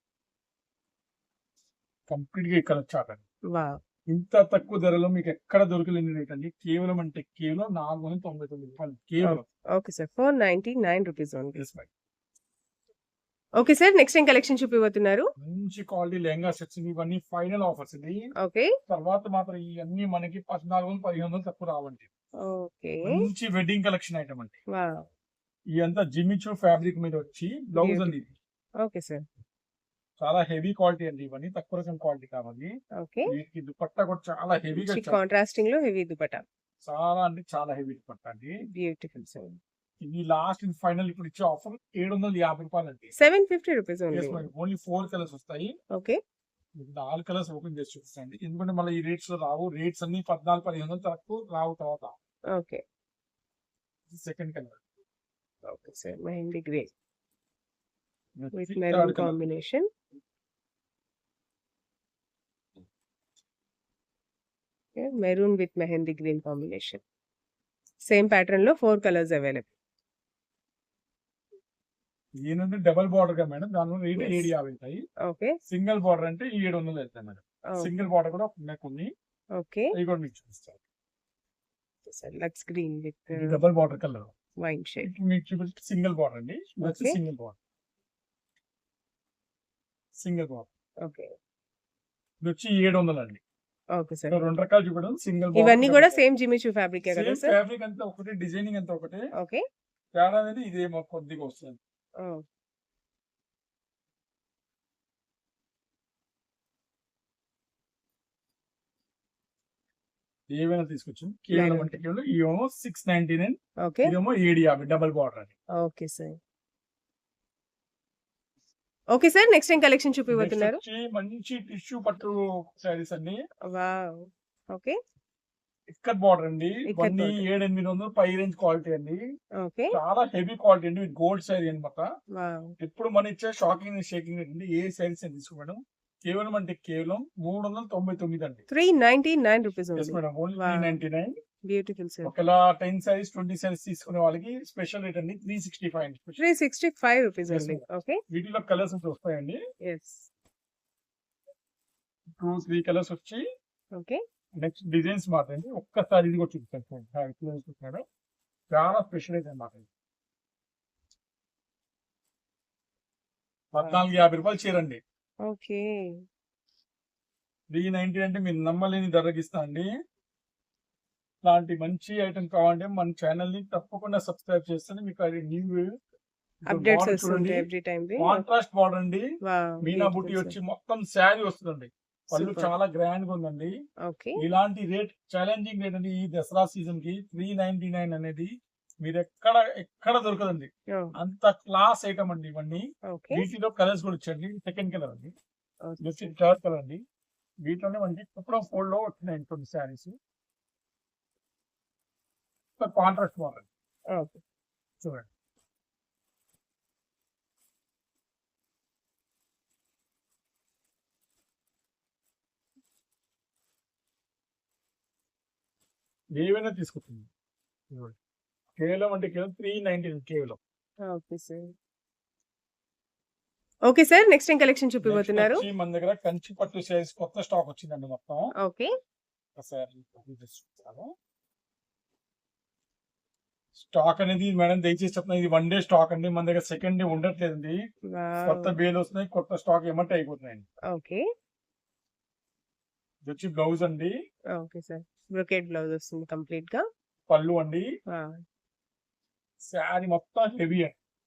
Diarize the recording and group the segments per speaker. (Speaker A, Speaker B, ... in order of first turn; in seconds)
Speaker A: 2.1-3.2, 4.1-9.5, 11.6-11.9, 15.4-18.2, 18.9-22.1, 23.1-24.6, 25.8-28.3, 30.2-32.7, 33.3-35.2, 36.8-38.6, 40.0-43.1, 44.1-45.7, 46.8-52.1, 54.1-54.8, 58.4-59.6, 72.4-75.0, 75.7-79.1, 79.9-80.8, 83.3-84.3, 85.0-87.6, 90.2-90.7, 92.4-93.4, 94.3-96.2, 97.1-99.2, 100.2-101.8, 110.5-115.5, 120.3-123.4, 125.9-129.2, 129.9-132.1, 132.8-138.6, 140.0-141.4, 142.2-146.4, 147.5-149.6, 152.4-153.4, 154.6-158.0, 158.7-159.9, 163.7-165.0, 167.7-169.9, 171.4-175.9, 176.7-177.7, 178.2-179.2, 179.8-183.7, 184.4-188.5, 189.0-195.3, 196.0-197.0, 197.7-200.2, 202.8-203.7, 216.4-217.3, 218.8-220.6, 225.0-228.5, 229.6-231.1, 233.8-237.8, 238.4-240.7, 243.2-244.1, 247.3-247.9, 249.6-250.9
Speaker B: 3.5-3.8, 9.2-11.6, 13.6-15.2, 18.4-18.7, 22.4-23.2, 24.7-25.1, 27.8-28.2, 28.8-29.2, 33.0-33.3, 34.8-36.5, 38.7-39.6, 43.2-44.5, 45.9-46.2, 52.5-52.8, 55.7-56.9, 58.5-59.9, 65.0-67.0, 68.1-69.7, 74.2-74.5, 75.2-75.6, 79.6-80.0, 82.1-83.6, 84.6-85.1, 86.8-87.2, 91.0-91.3, 94.0-94.5, 95.5-97.5, 99.4-99.6, 111.5-112.0, 113.8-114.1, 115.8-116.4, 119.1-120.8, 123.7-125.0, 126.9-127.4, 129.6-130.0, 132.3-132.7, 138.7-141.0, 141.7-142.3, 146.4-148.2, 149.8-150.3, 153.9-154.2, 165.5-166.1, 176.7-178.4, 179.4-180.6, 182.3-182.7, 184.1-184.4, 193.1-193.5, 195.8-196.3, 204.1-204.4, 221.1-221.7, 223.9-225.7, 228.6-228.9, 238.1-238.8, 240.9-241.2, 244.5-246.8, 248.1-248.4